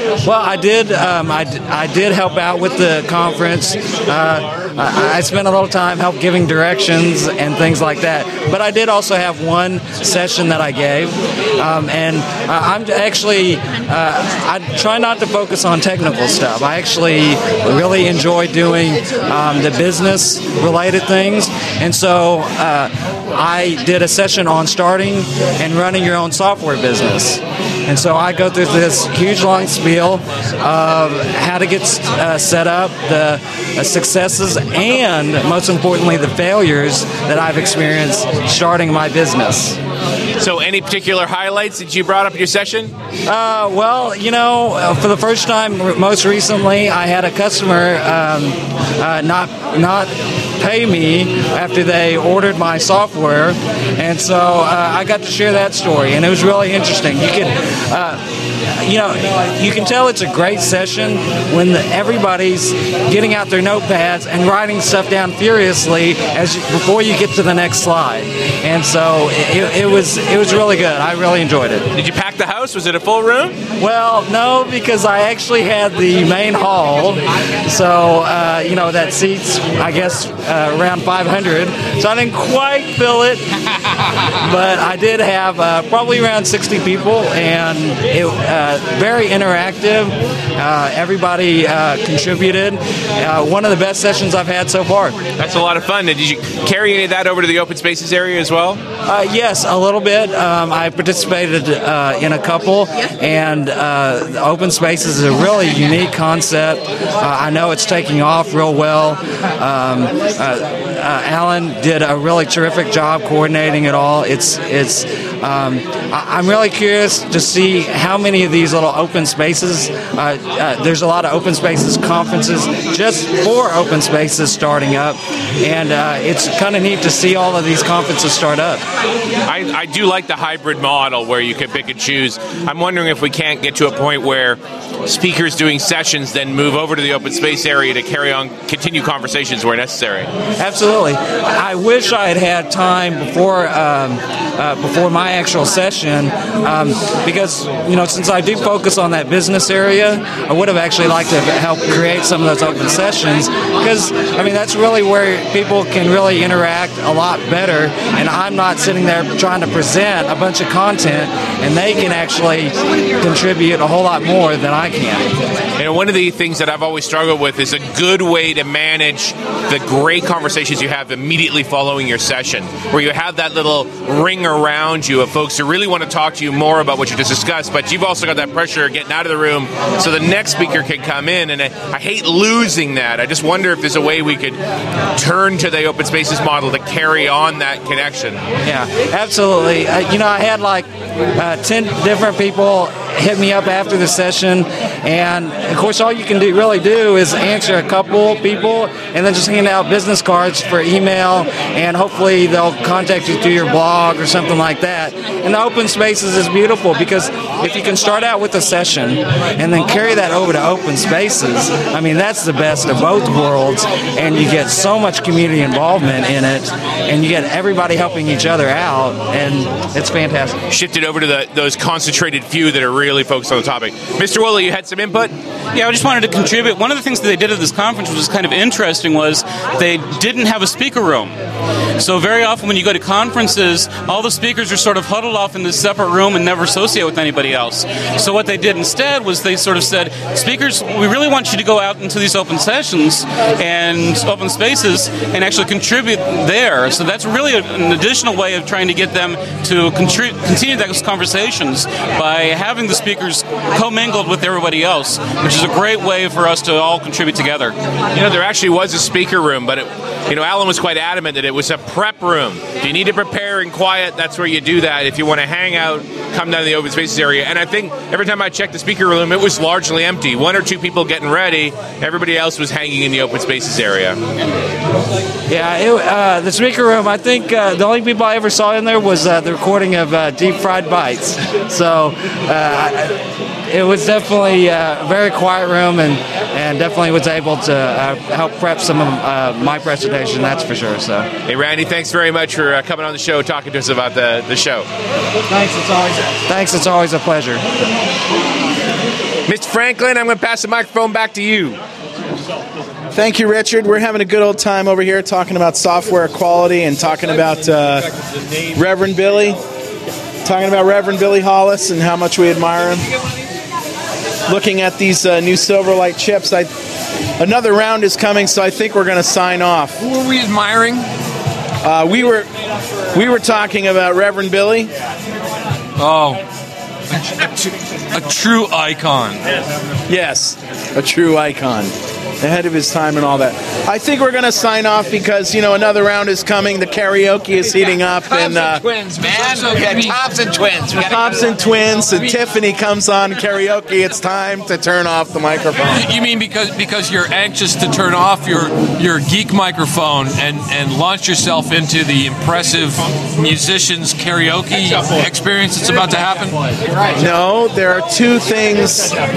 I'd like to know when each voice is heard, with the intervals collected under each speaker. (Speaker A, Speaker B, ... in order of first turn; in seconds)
Speaker A: 0.2-39.8, 43.3-58.2, 58.8-71.9, 73.8-83.5, 84.4-95.2, 99.0-128.8, 140.6-165.3, 188.6-220.6, 275.5-291.3, 296.4-297.6
Speaker B: 40.4-42.9, 71.9-73.5, 95.4-98.8, 129.4-140.3, 165.8-184.6, 185.1-188.4, 220.7-225.3, 258.1-274.2, 291.4-294.9, 299.5-301.8
Speaker C: 225.7-231.3, 232.0-257.7
Speaker D: 303.1-308.1, 308.7-309.6, 310.4-313.1, 314.5-316.7, 317.4-320.0, 321.8-322.5, 323.1-324.9, 330.1-338.8, 341.0-346.0, 357.1-359.2
Speaker E: 320.0-321.1, 326.0-326.4, 327.1-329.4, 345.9-356.8
Speaker F: 338.3-341.5